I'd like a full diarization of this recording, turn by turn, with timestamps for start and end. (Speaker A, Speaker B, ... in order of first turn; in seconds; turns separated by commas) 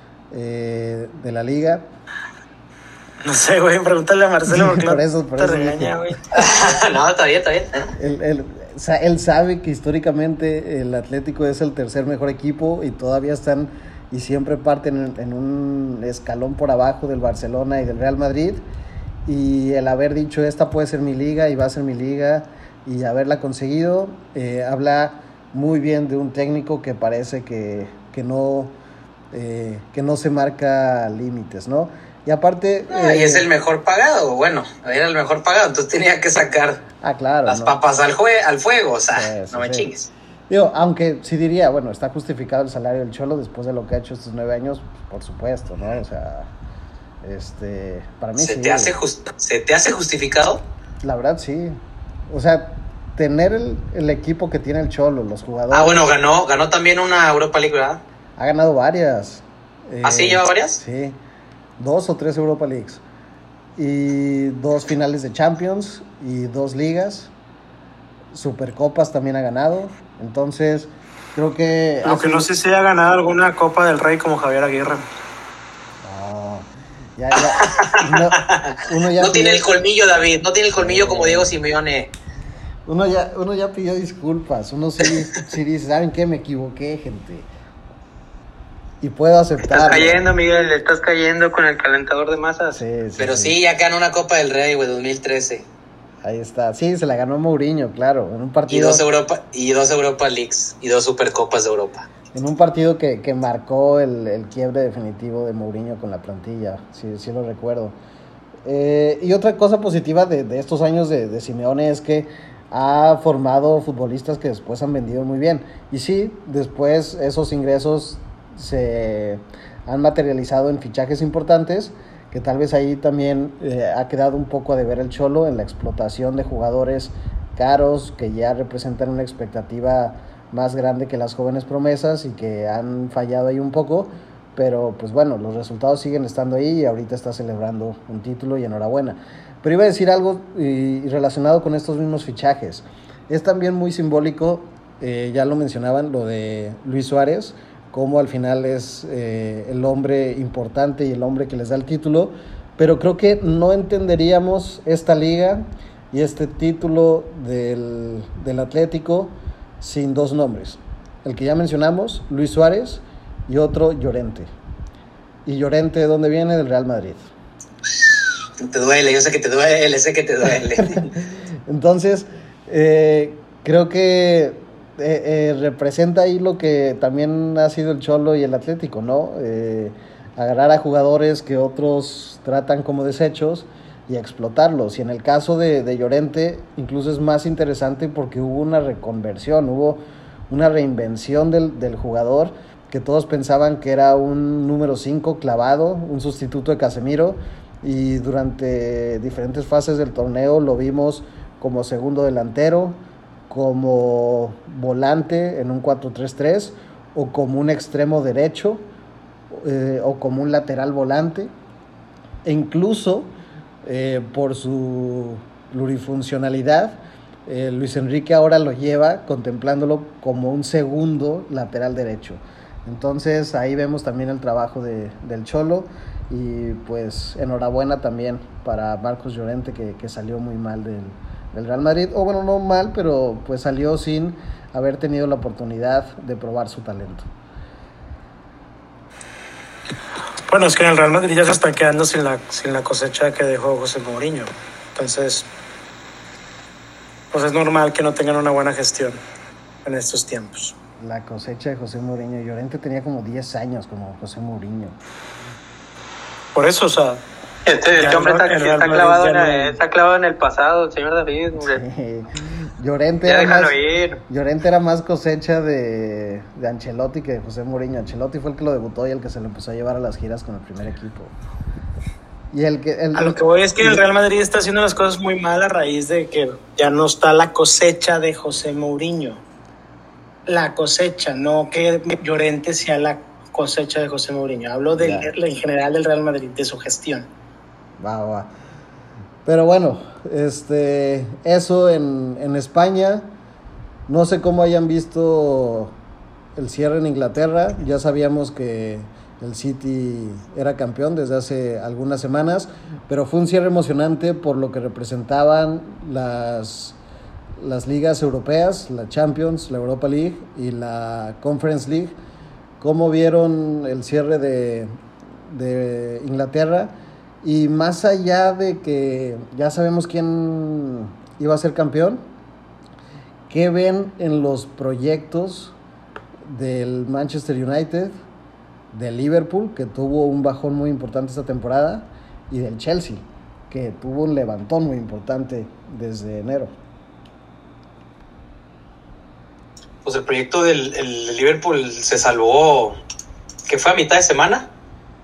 Speaker A: 0.3-1.9, Speaker B: 3.2-6.2, Speaker A: 4.5-6.0, Speaker C: 6.3-7.9, Speaker A: 8.0-18.6, Speaker A: 19.2-28.7, Speaker A: 29.3-33.5, Speaker C: 32.9-36.8, Speaker A: 37.0-37.8, Speaker C: 37.5-40.1, Speaker A: 39.1-39.9, Speaker A: 40.5-46.5, Speaker A: 47.2-48.9, Speaker C: 48.4-50.6, Speaker A: 51.0-51.8, Speaker A: 52.3-56.0, Speaker C: 55.7-58.0, Speaker A: 58.4-61.2, Speaker C: 60.0-60.8, Speaker A: 61.8-63.0, Speaker A: 63.8-67.3, Speaker A: 68.3-72.5, Speaker B: 72.0-75.1, Speaker A: 76.0-79.7, Speaker C: 77.3-82.1, Speaker A: 80.8-81.5, Speaker A: 82.9-87.5, Speaker A: 89.0-90.2, Speaker D: 89.6-92.8, Speaker A: 92.7-93.6, Speaker C: 93.2-95.7, Speaker A: 96.2-99.0, Speaker C: 98.7-102.1, Speaker A: 102.3-107.9, Speaker A: 108.6-164.5, Speaker A: 165.4-167.3, Speaker C: 168.0-171.1, Speaker A: 170.8-203.0, Speaker A: 203.5-208.8, Speaker A: 209.5-211.5, Speaker A: 212.4-213.3, Speaker A: 213.8-237.3, Speaker B: 240.5-245.5, Speaker B: 247.3-249.2, Speaker B: 249.8-250.7, Speaker A: 251.0-254.9, Speaker B: 256.6-257.2, Speaker D: 257.6-261.8, Speaker B: 258.0-259.8, Speaker A: 261.6-263.7, Speaker D: 263.2-264.2, Speaker A: 264.3-271.3, Speaker A: 272.5-274.0, Speaker B: 273.1-279.4, Speaker B: 280.4-287.3, Speaker A: 284.9-285.3, Speaker A: 288.0-288.5, Speaker A: 289.4-293.3, Speaker A: 294.1-295.9, Speaker A: 296.6-307.0, Speaker A: 307.6-312.1, Speaker A: 312.8-314.9, Speaker A: 315.5-322.2, Speaker A: 323.5-325.8, Speaker A: 326.4-328.2, Speaker A: 328.9-336.7, Speaker C: 340.0-343.0, Speaker C: 343.7-344.7